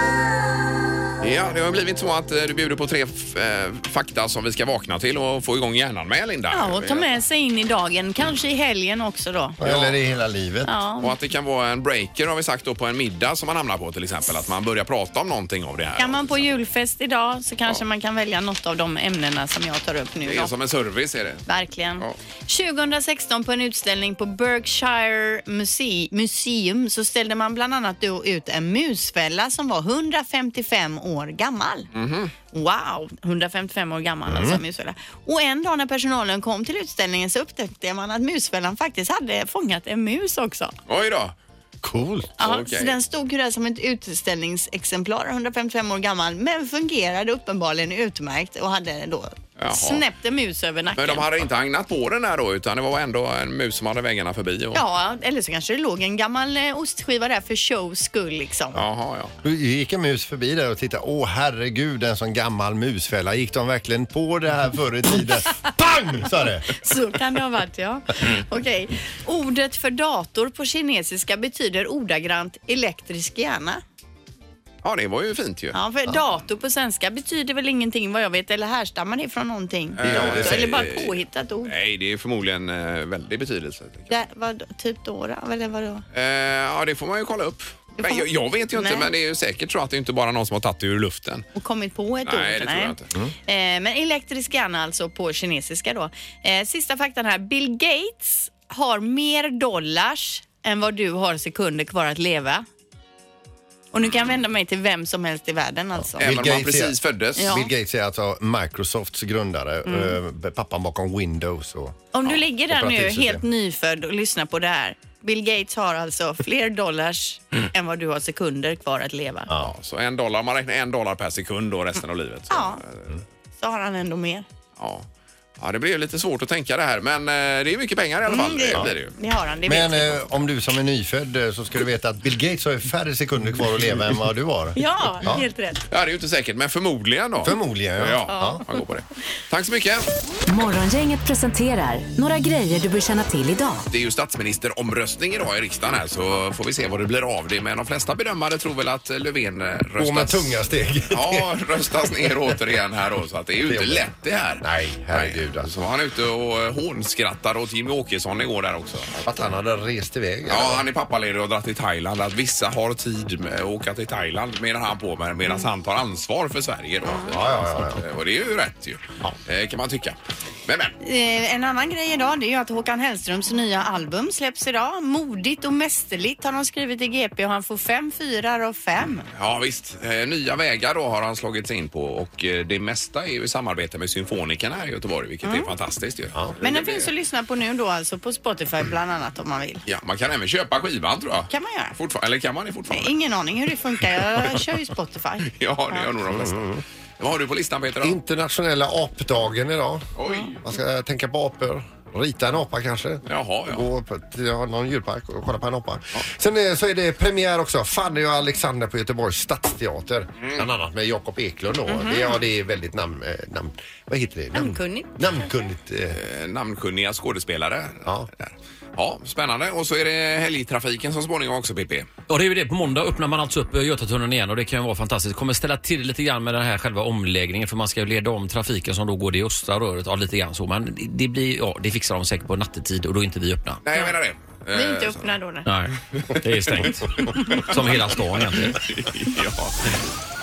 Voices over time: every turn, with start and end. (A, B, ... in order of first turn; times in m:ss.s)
0:01.2-0:07.1 A
0:06.5-0:09.6 B
0:09.6-0:10.7 C
0:09.6-0:10.0 A
0:10.7-0:11.1 B
0:11.0-0:16.5 A
0:16.0-0:20.5 B
0:20.2-0:21.4 A
0:21.4-0:31.9 B
0:31.9-0:32.3 A
0:32.5-0:40.8 B
0:34.3-0:34.6 C
0:40.9-0:41.3 A
0:41.8-0:42.3 C
0:42.4-0:43.0 A
0:42.4-0:51.3 B
0:49.6-0:50.0 A
0:51.0-0:54.8 A
0:54.7-0:58.8 B
0:58.7-0:59.3 A
0:59.4-1:06.7 C
1:06.6-1:13.8 B
1:14.8-1:15.8 A
1:15.7-1:21.7 B
1:20.0-1:24.1 A
1:20.0-1:20.8 C
1:24.1-1:26.0 B
1:26.1-1:31.5 A
1:28.0-1:29.1 B
1:31.5-1:32.9 B
1:32.2-1:33.1 A
1:33.5-1:42.7 B
1:43.9-1:46.6 B
1:46.0-1:52.1 C
1:46.2-1:47.6 A
1:47.4-1:47.7 B
1:49.9-1:50.2 B
1:52.1-1:59.5 B
1:52.7-1:53.4 C
1:59.5-1:59.7 C
1:59.6-2:03.2 A
2:02.5-2:02.8 B
2:03.6-2:04.4 B
2:04.8-2:05.1 A
2:05.6-2:09.1 A
2:08.3-2:10.3 B
2:09.7-2:15.4 C
2:14.8-2:15.8 B
2:15.9-2:20.1 A
2:17.4-2:18.6 C
2:18.3-2:18.6 B
2:20.5-2:23.9 D
2:23.9-2:30.6 A
2:30.0-2:31.5 C
2:31.1-2:39.1 A
2:32.0-2:32.6 C
2:33.7-2:34.1 C
2:34.6-2:35.7 C
2:39.2-2:40.8 C
2:40.5-2:50.9 A
2:47.2-2:48.0 C
2:51.0-2:59.3 B
2:59.3-3:07.1 A
3:05.4-3:05.7 B
3:06.6-3:09.8 B
3:09.9-3:13.1 A
3:11.5-3:11.9 B
3:12.9-3:16.1 B
3:15.4-3:18.2 A
3:16.3-3:16.8 C
3:18.0-3:20.1 C
3:20.2-3:20.6 A
3:20.6-3:36.2 C
3:23.2-3:23.9 A
3:31.9-3:32.4 B
3:34.5-3:35.1 B
3:36.1-3:42.1 A
3:38.0-3:38.3 C
3:42.3-3:53.8 E
3:53.8-3:55.3 A
3:54.7-3:55.7 B
3:55.6-3:58.8 E
3:57.3-3:57.8 A
3:58.7-3:59.9 A